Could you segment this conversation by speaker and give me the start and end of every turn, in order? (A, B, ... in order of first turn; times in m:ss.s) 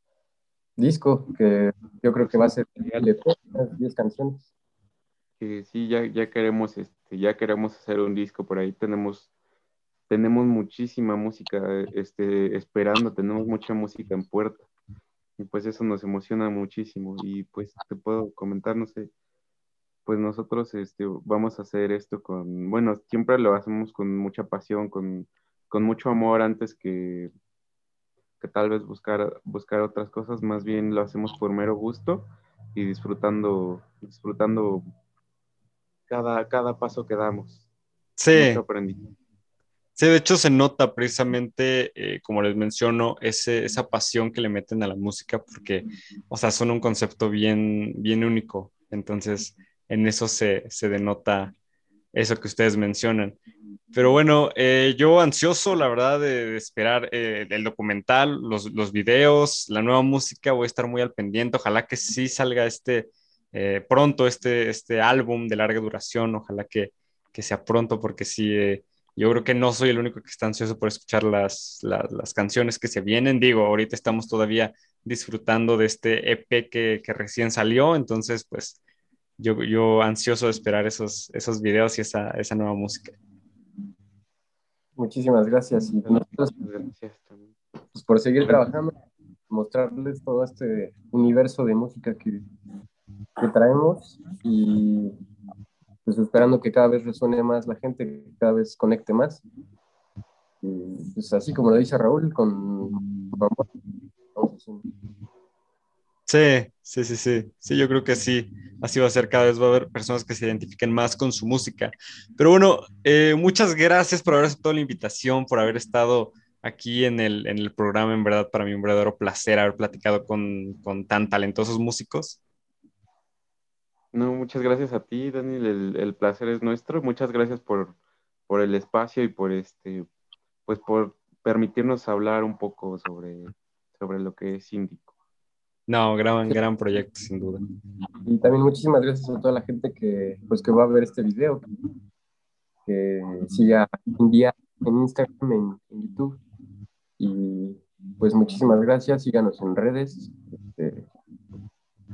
0:00.8-0:04.4 A
0:02.2-0:02.5 B
0:05.4-0:09.3 B
0:10.1-0:14.7 B
0:15.4-0:19.1 B
0:20.0-0:27.3 B
0:28.4-0:34.8 B
0:36.1-0:37.6 B
0:38.2-0:38.6 C
0:38.3-0:39.1 B
0:40.0-0:51.5 C
0:52.1-0:53.4 C
0:53.9-1:18.8 C
1:19.4-1:23.1 C
1:25.0-1:26.5 A
1:26.0-1:27.5 B
1:27.9-1:29.0 A
1:28.4-1:28.7 B
1:29.5-1:32.4 A
1:33.4-1:35.1 A
1:36.0-1:39.4 A
1:40.6-1:43.6 A
1:44.3-1:44.8 A
1:46.3-2:02.4 C
2:04.1-2:08.0 B
2:08.5-2:10.1 B
2:10.6-2:15.1 B
2:15.9-2:17.6 C
2:18.2-2:21.6 A
2:22.8-2:26.4 A
2:27.2-2:31.1 A